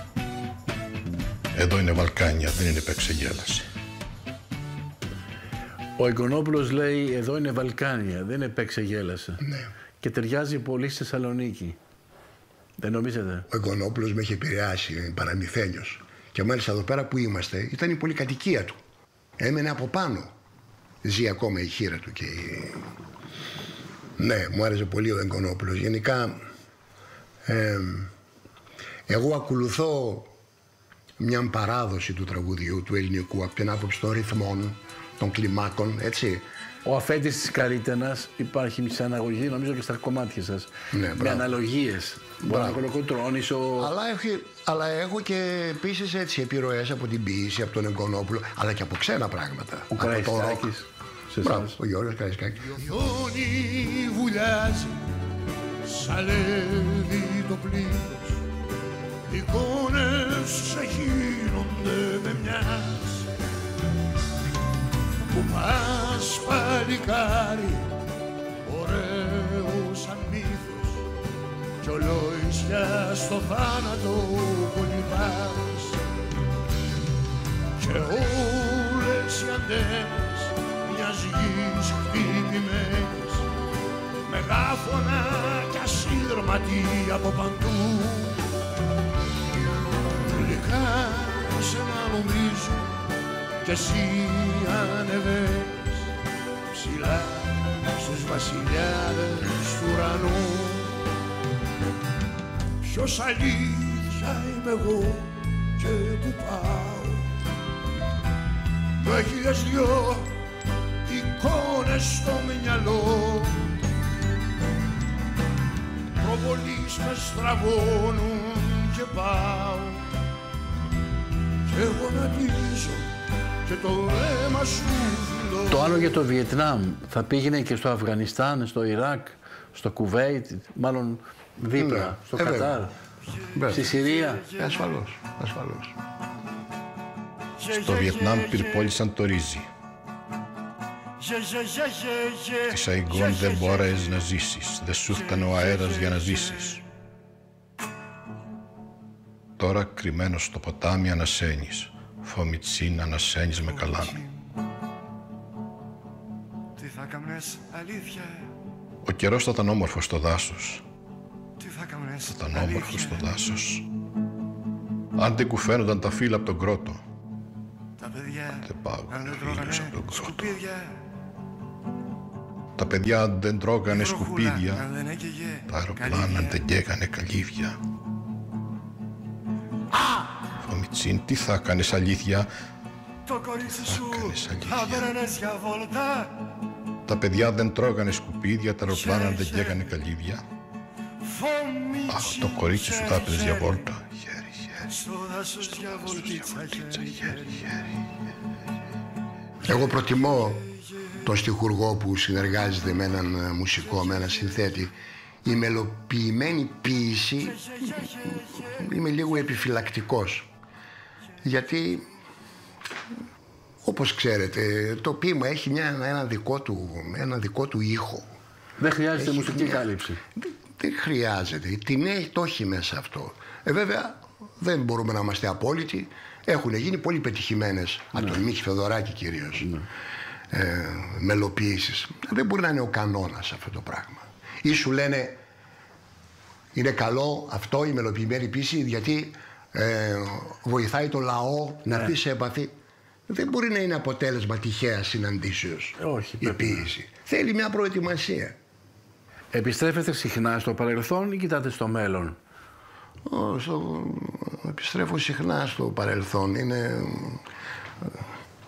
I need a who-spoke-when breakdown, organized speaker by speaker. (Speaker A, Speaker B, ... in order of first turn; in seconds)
Speaker A: 1.5-3.7, 137.7-139.7, 142.7-146.8, 149.6-154.2, 159.0-160.8, 162.3-163.9, 165.2-167.0, 168.6-170.5, 172.8-174.8, 175.7-177.8, 180.5-182.5, 183.7-185.2, 187.1-190.4, 192.1-194.7, 195.9-197.6
Speaker B: 6.0-9.5, 10.0-11.8, 12.8-13.5, 36.8-43.9, 49.9-51.8, 125.7-132.9, 133.7-134.5, 218.8-220.2, 246.0-246.9, 249.5-252.4
Speaker C: 13.5-18.8, 19.4-20.3, 21.0-22.8, 24.2-26.4, 27.4-28.1, 29.1-30.3, 31.2-36.5, 40.9-41.5, 42.5-42.8, 43.8-50.7, 51.4-52.8, 131.8-132.8, 133.5-133.9, 134.5-135.9, 199.6-200.7, 201.2-204.9, 205.4-207.7, 208.7-210.5, 211.4-212.1, 213.8-218.3, 219.2-229.7, 230.5-235.4, 236.7-242.7, 243.3-248.6, 253.3-257.4
Speaker D: 52.7-55.1, 55.8-58.4, 59.3-63.3, 65.3-68.0, 68.6-71.1, 71.8-76.1, 77.8-83.5, 84.2-88.4, 90.2-93.0, 93.6-96.1, 96.7-101.0, 102.8-107.4, 109.0-110.4, 111.1-113.7, 116.2-120.1, 121.7-123.1, 123.7-126.0, 133.7-134.9, 137.6-138.9, 141.2-144.1, 145.1-146.8, 153.7-154.4, 156.8-158.5, 161.6-163.3, 168.0-171.0, 173.9-176.6, 183.3-186.4, 188.9-189.8, 191.2-193.8, 194.8-197.7, 207.5-208.9